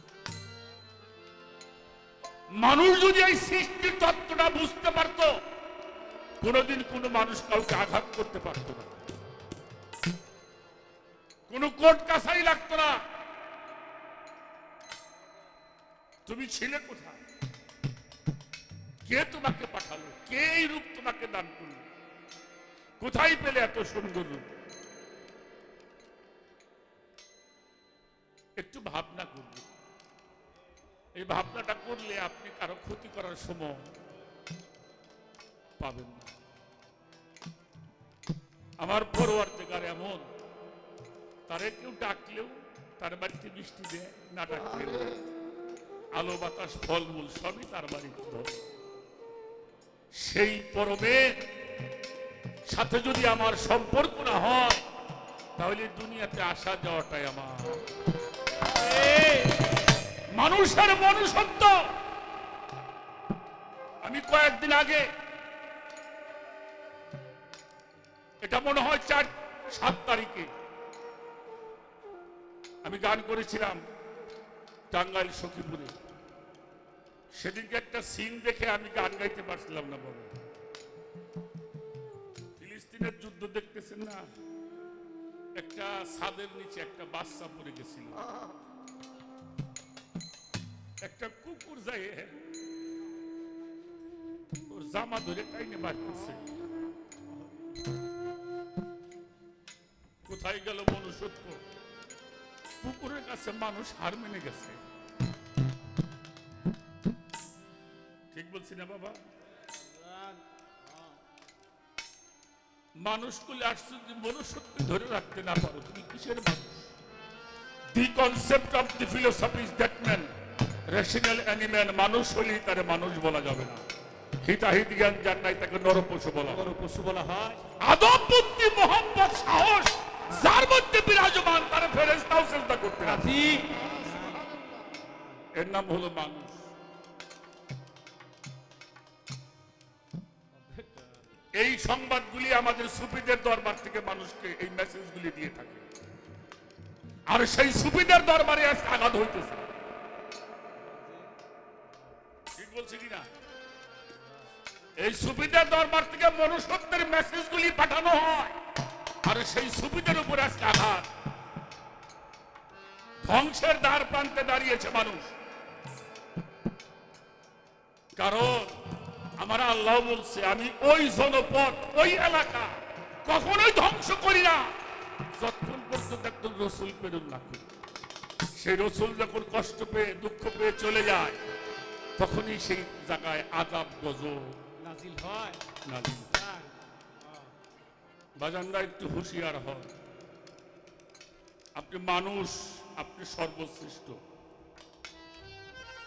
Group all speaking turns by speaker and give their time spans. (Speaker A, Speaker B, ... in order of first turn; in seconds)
Speaker A: 2.5-5.3, 6.4-8.9, 11.5-13.0, 16.2-17.2, 19.0-21.8, 23.0-24.5, 28.6-29.6, 31.1-33.9, 35.8-36.3, 38.8-40.3, 41.5-45.2, 46.1-48.6, 50.1-51.3, 52.7-54.8, 55.6-57.8, 60.3-61.8, 64.0-65.1, 68.4-70.5, 72.8-73.8, 74.9-75.9, 77.3-80.3, 82.6-84.3, 85.5-88.2, 91.0-92.4, 94.7-96.5, 100.2-101.6, 102.8-104.8, 108.3-109.2, 113.0-116.9, 117.9-120.3, 120.9-123.8, 124.4-126.7, 127.8-133.3, 135.5-136.6, 141.5-145.8, 147.3-149.6, 152.5-153.3, 155.0-158.6, 159.2-161.1, 163.2-165.3, 168.2-168.8, 169.4-174.7, 175.3-177.7, 178.5-181.4, 182.2-184.6, 185.8-186.3, 188.4-189.9, 191.7-194.2
Speaker B: 58.8-59.5, 126.4-127.6, 133.0-135.4, 140.6-141.1, 184.8-185.6, 186.3-187.4